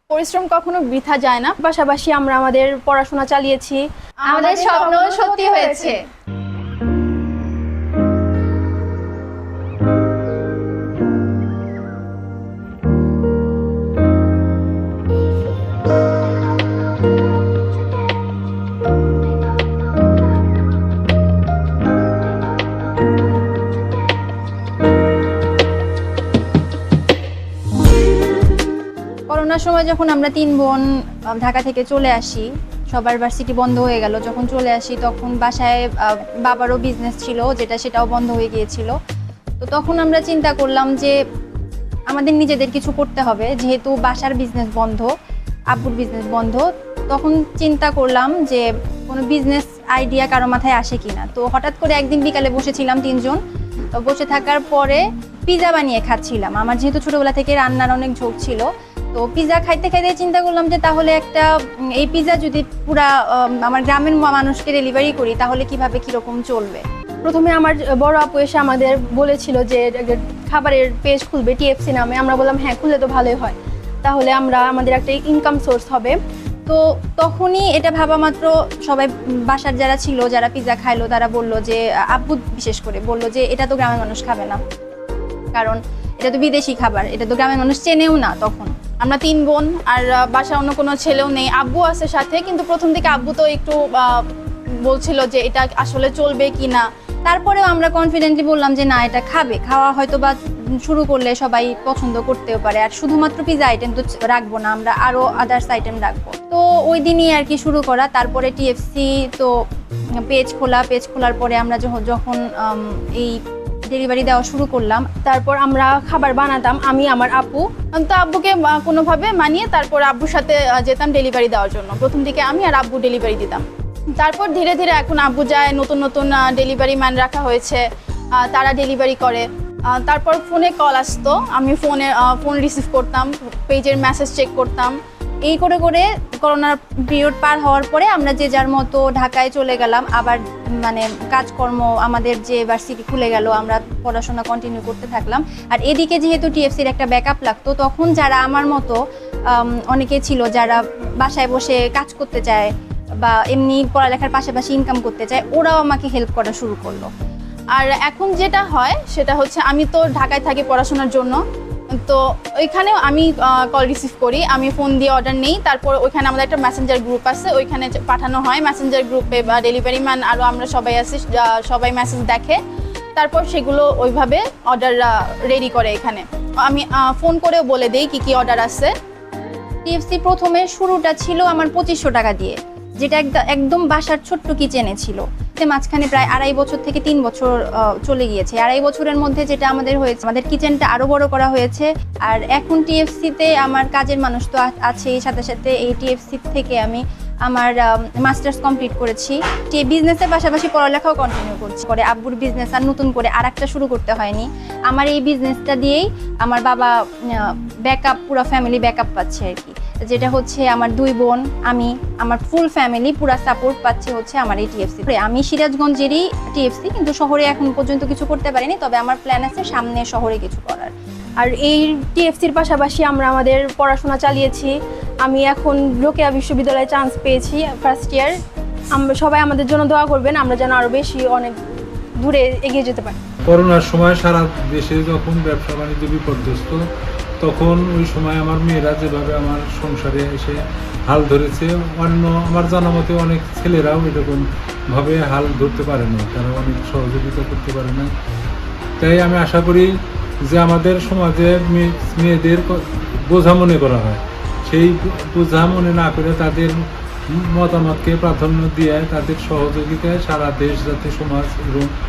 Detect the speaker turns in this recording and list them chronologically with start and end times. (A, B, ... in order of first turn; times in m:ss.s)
0:00.1-0:01.6 A
0:01.6-0:03.8 B
0:04.3-0:06.0 C
0:04.3-0:04.9 A
0:04.4-0:05.9 B
0:29.3-0:38.9 C
0:39.6-0:41.2 C
0:42.1-0:45.1 C
0:45.7-0:53.4 C
0:53.9-1:06.8 C
1:07.2-1:16.2 B
1:16.7-1:24.6 C
1:25.5-1:28.7 C
1:29.0-1:34.2 A
1:34.8-1:36.8 A
1:37.3-1:49.5 C
1:50.3-1:53.4 C
1:53.9-1:55.0 C
1:55.2-1:57.6 B
1:58.0-2:03.6 A
2:04.2-2:07.8 A
2:08.4-2:09.4 A
2:09.9-2:14.9 A
2:15.4-2:29.0 C
2:29.5-2:37.1 C
2:37.7-2:41.4 A
2:42.0-2:52.6 A
2:53.2-2:58.9 A
2:59.8-3:40.9 C
3:41.4-3:48.4 B
3:48.9-3:51.6 B
3:52.2-3:53.2 B
3:53.5-3:56.8 D
3:57.4-4:00.6 D
4:01.1-4:08.1 D
4:09.0-4:09.9 D
4:10.4-4:16.8 D
4:17.3-4:21.9 D